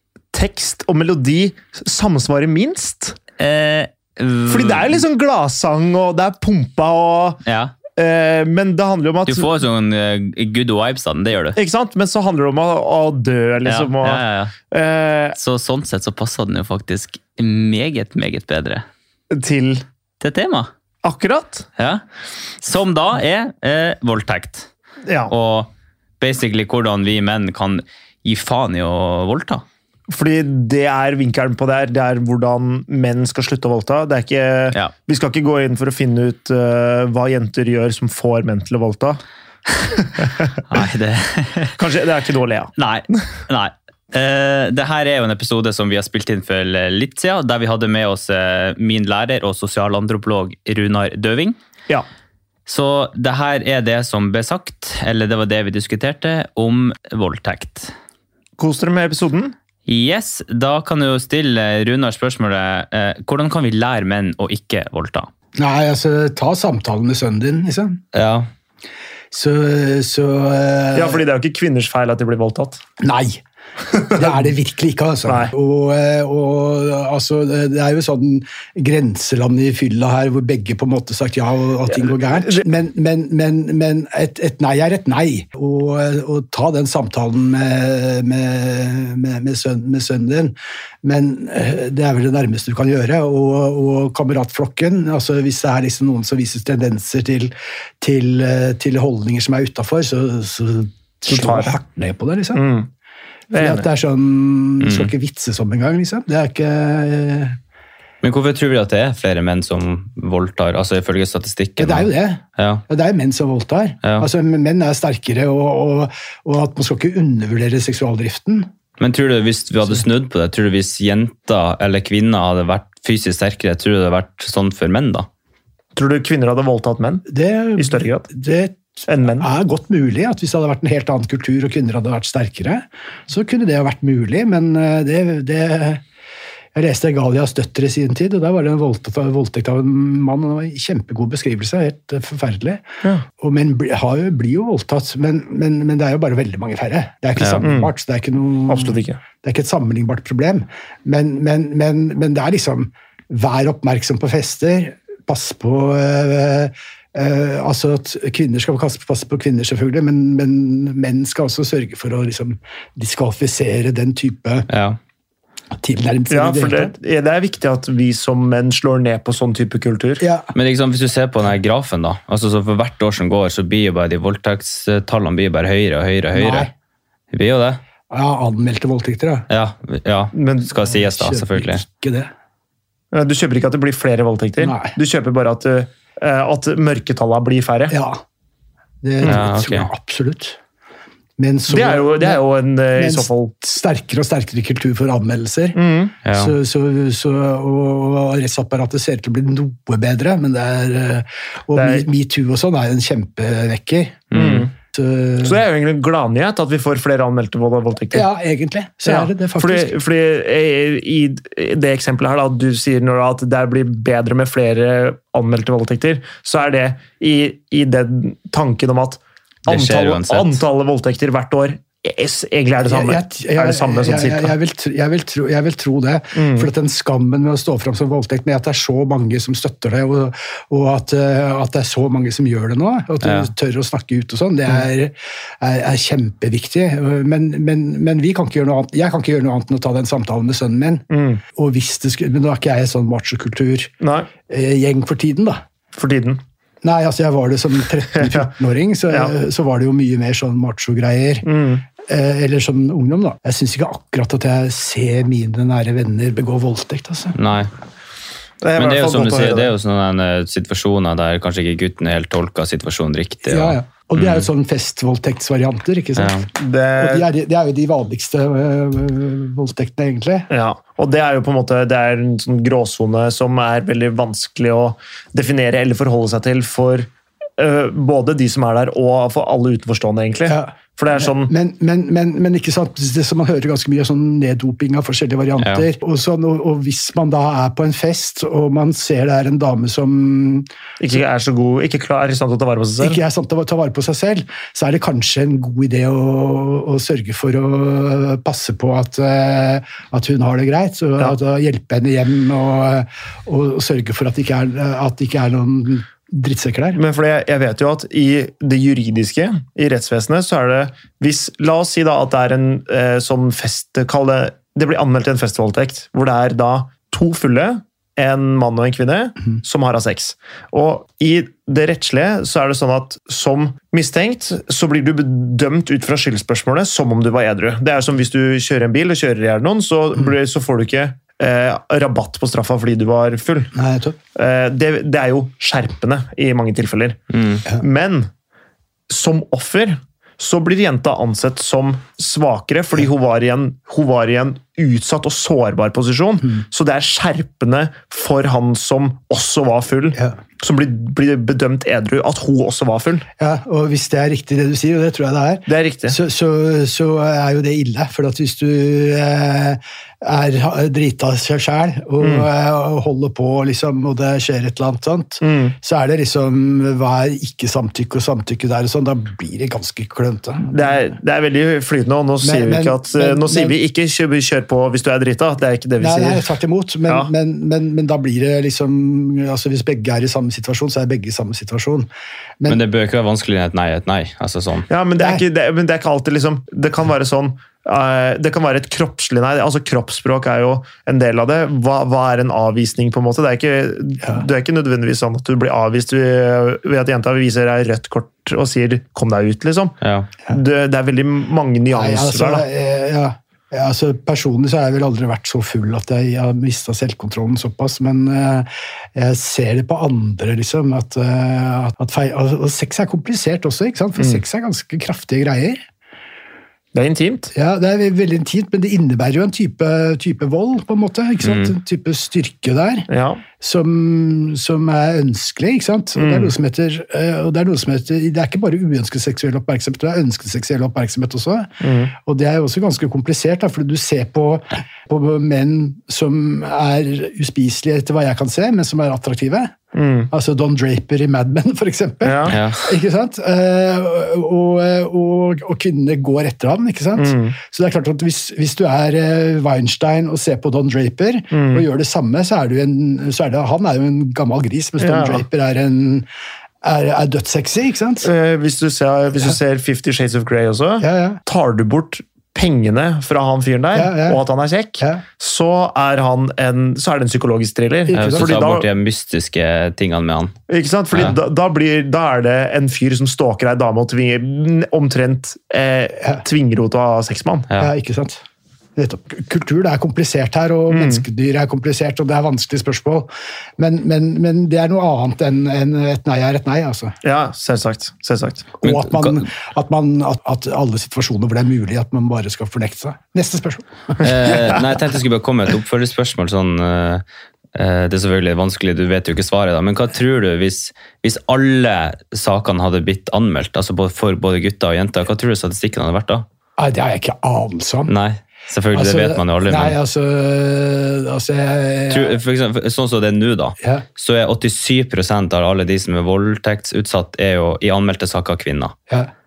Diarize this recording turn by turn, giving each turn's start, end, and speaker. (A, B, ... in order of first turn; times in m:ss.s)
0:00.3-0:03.2 A
0:03.4-0:05.0 B
0:04.4-0:07.4 A
0:07.4-0:07.8 B
0:07.9-0:09.6 A
0:09.2-0:11.6 B
0:11.4-0:15.4 A
0:13.6-0:14.5 B
0:15.4-0:18.8 B
0:19.3-0:19.8 A
0:20.2-0:20.7 B
0:21.0-0:21.7 A
0:21.8-0:22.0 B
0:22.6-0:24.7 B
0:25.0-0:25.3 A
0:25.3-0:29.6 B
0:30.1-0:39.2 A
0:40.1-0:40.5 A
0:40.7-0:41.7 B
0:41.7-0:42.7 A
0:42.8-0:51.6 B
0:52.6-0:57.9 B
0:58.6-0:59.5 A
0:59.8-1:05.3 B
1:05.6-1:08.0 C
1:08.1-1:08.5 B
1:09.3-1:11.2 C
1:10.9-1:12.8 A
1:13.0-1:13.4 C
1:13.9-1:14.5 A
1:14.1-1:42.6 C
1:15.2-1:15.5 A
1:21.9-1:22.6 A
1:41.3-1:41.7 A
1:42.5-1:42.9 A
1:43.5-1:43.9 A
1:43.6-1:47.6 C
1:44.8-1:45.1 B
1:48.2-1:52.8 B
1:51.8-1:58.7 C
1:54.0-1:54.3 B
1:59.0-2:05.3 B
2:05.9-2:08.3 A
2:07.3-2:16.0 C
2:09.1-2:09.5 A
2:16.7-2:22.8 C
2:23.4-2:44.7 C
2:27.4-2:27.7 B
2:27.6-2:27.9 A
2:28.7-2:29.2 A
2:44.7-2:45.0 B
2:45.8-2:46.9 C
2:46.3-2:50.3 A
2:50.2-2:50.5 C
2:50.5-2:56.7 B
2:56.4-2:56.7 C
2:57.3-2:57.8 B
2:58.1-2:59.5 C
2:59.5-3:01.8 B
3:00.3-3:00.8 A
3:00.8-3:02.3 C
3:03.1-3:08.0 A
3:04.6-3:05.0 C
3:07.9-3:08.2 C
3:09.0-3:10.6 C
3:09.2-3:09.9 B
3:11.4-3:12.4 C
3:11.7-3:13.5 A
3:12.9-3:15.8 C
3:15.7-3:16.2 A
3:16.2-3:16.5 B
3:16.3-3:24.3 C
3:21.7-3:22.1 A
3:24.3-3:24.7 B
3:24.3-3:24.7 A
3:24.8-3:25.6 C
3:25.4-3:28.3 A
3:28.1-3:29.9 C
3:29.0-3:44.6 A
3:39.7-3:40.6 B
3:42.8-4:01.0 C
3:46.3-3:46.7 A
3:53.2-3:53.5 B
4:01.1-4:01.4 A
4:01.6-4:03.9 C
4:04.0-4:04.3 A
4:04.5-4:05.6 C
4:05.9-4:06.4 A
4:06.8-4:11.5 C
4:08.0-4:08.5 A
4:09.1-4:09.4 A
4:11.4-4:11.8 A
4:12.0-4:17.4 C
4:17.3-4:17.7 B
4:18.6-4:19.7 A
4:18.8-4:24.5 B
4:23.5-4:26.4 C
4:26.2-4:26.5 B
4:26.5-4:27.3 A
4:27.0-4:30.5 C
4:30.5-4:41.5 A
4:40.4-4:50.7 C
4:45.6-4:45.9 B
4:51.0-4:53.2 A
4:53.0-5:07.0 C
5:06.9-5:33.7 A
5:33.7-5:34.2 C
5:34.3-5:37.2 A
5:37.3-5:37.7 B
5:37.7-5:38.3 A
5:39.1-5:53.3 A
5:53.4-6:10.9 C
5:55.7-5:56.2 A
6:02.2-6:02.5 A
6:05.4-6:05.8 A
6:10.7-6:17.3 A
6:12.4-6:13.8 C
6:16.0-6:22.1 C
6:22.6-6:24.9 B
6:24.9-6:42.7 A
6:25.2-6:25.4 C
6:34.2-6:34.4 C
6:40.0-6:40.3 B
6:41.9-6:55.8 C
6:54.2-6:54.4 A
6:56.9-6:57.5 A
6:57.5-7:03.1 C
7:01.4-7:01.8 B
7:03.1-7:03.4 A
7:03.6-7:11.7 C
7:06.1-7:06.6 A
7:11.8-7:12.2 A
7:12.2-7:19.7 C
7:19.9-7:20.3 A
7:20.3-7:36.3 C
7:22.2-7:22.6 A
7:22.5-7:23.0 B
7:27.2-7:27.6 A
7:31.5-7:31.8 A
7:35.0-7:35.4 A
7:36.8-7:38.3 C
7:38.2-7:48.9 A
7:41.0-7:41.4 C
7:43.9-7:44.4 C
7:45.0-7:45.2 C
7:48.1-7:48.5 C
7:48.1-7:50.5 B
7:50.7-7:57.7 A
7:51.1-7:51.4 B
7:56.2-7:56.4 C
7:57.8-7:58.4 C
7:59.0-8:07.1 C
8:00.9-8:01.2 A
8:07.2-8:08.8 A
8:08.8-8:09.6 B
8:08.8-8:14.6 C
8:14.2-8:17.2 B
8:17.7-8:26.4 B
8:26.8-8:28.1 C
8:28.1-8:30.0 B
8:28.9-8:32.4 C
8:32.1-8:38.9 B